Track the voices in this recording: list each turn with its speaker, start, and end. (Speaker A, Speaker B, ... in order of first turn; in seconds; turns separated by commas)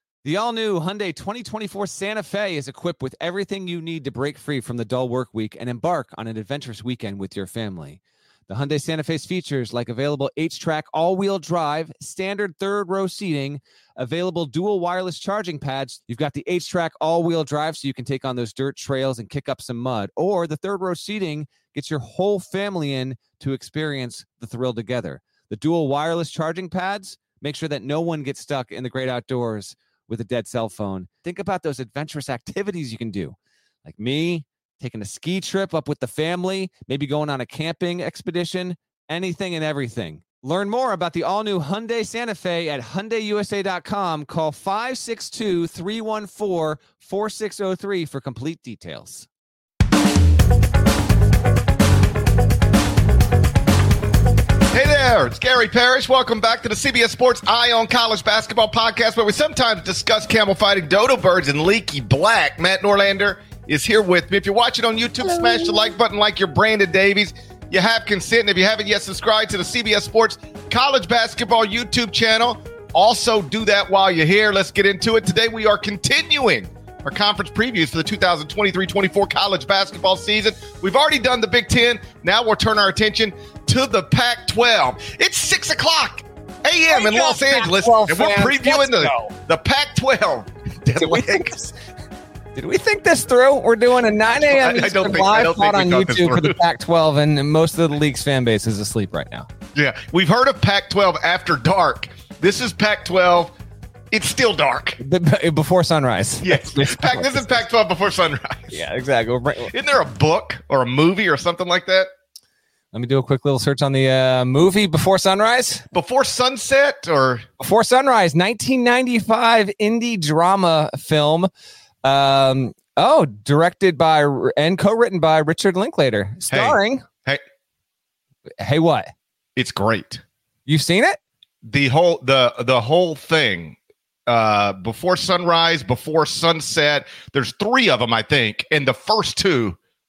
Speaker A: 0.2-49.3, Speaker B: 54.7-91.5, Speaker A: 86.9-89.3, Speaker A: 91.0-91.7, Speaker A: 92.5-99.5, Speaker B: 94.5-96.5, Speaker B: 99.7-103.5, Speaker B: 104.1-105.0, Speaker A: 105.0-107.6, Speaker B: 106.4-108.8, Speaker A: 108.7-109.7, Speaker B: 109.7-112.1, Speaker A: 112.9-115.8, Speaker B: 115.9-117.5, Speaker A: 117.6-121.5, Speaker A: 122.0-127.0, Speaker B: 126.5-127.4, Speaker A: 128.6-129.1, Speaker B: 129.6-130.2, Speaker A: 130.7-131.2, Speaker B: 131.7-133.8, Speaker B: 134.3-139.8